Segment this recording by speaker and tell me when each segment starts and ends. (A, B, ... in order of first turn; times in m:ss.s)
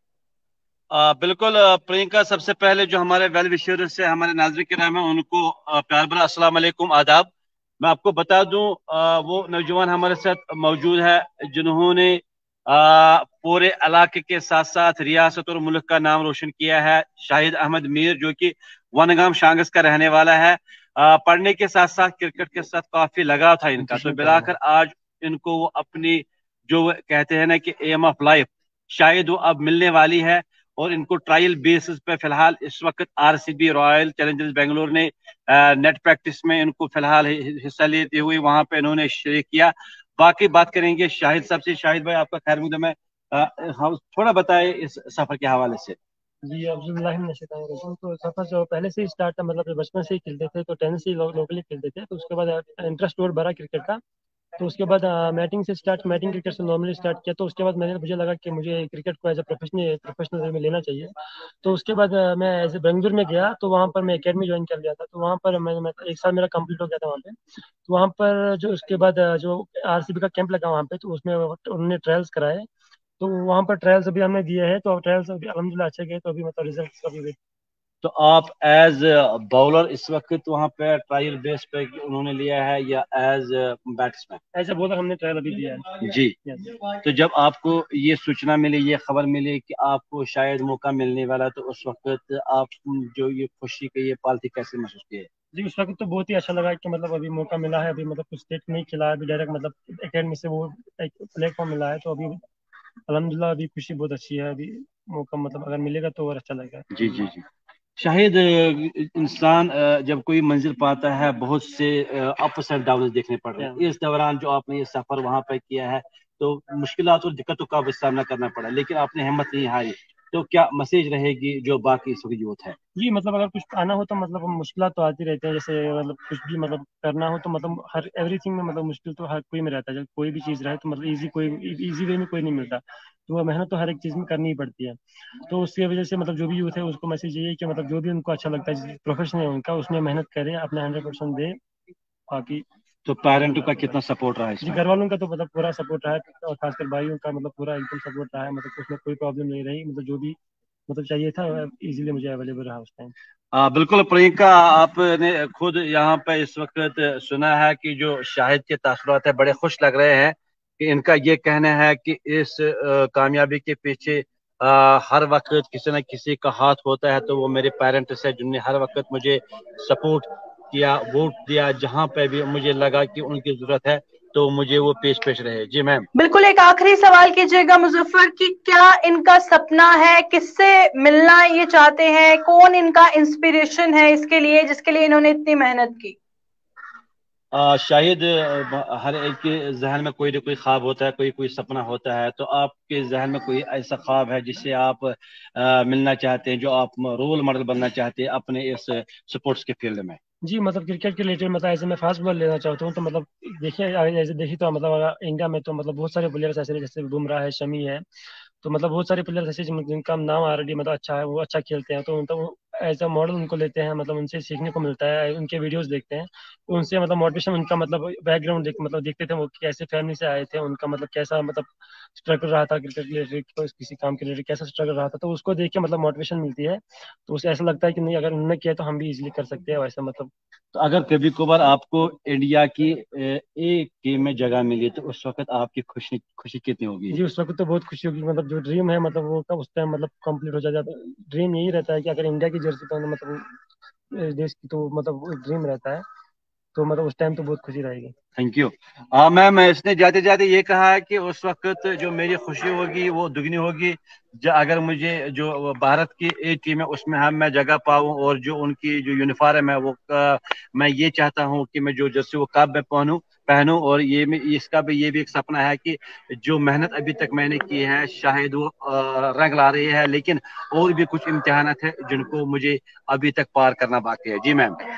0:00.9-0:07.3 A
0:07.8-0:46.0 A
0:23.8-0:24.5 B
0:46.4-0:54.0 B
0:54.6-1:12.7 B
1:13.2-1:17.4 B
1:18.0-1:24.4 A
1:24.6-1:26.7 B
1:26.0-1:26.4 A
1:27.0-1:35.3 A
1:35.5-1:42.4 B
1:43.1-1:47.2 B
1:46.9-1:47.4 A
1:48.0-2:02.8 A
2:03.0-2:15.0 B
2:15.5-2:21.6 B
2:22.3-2:22.6 B
2:23.0-2:24.8 A
2:23.2-2:24.0 B
2:24.6-2:30.4 B
2:30.9-2:33.1 B
2:33.5-2:56.1 A
2:56.2-3:06.2 C
3:07.5-3:20.2 A
3:20.4-3:28.0 B
3:28.6-3:50.3 B
3:50.8-3:57.2 A
3:57.1-4:03.4 B
4:04.1-4:06.0 B
4:06.8-4:08.1 B
4:08.4-4:34.8 A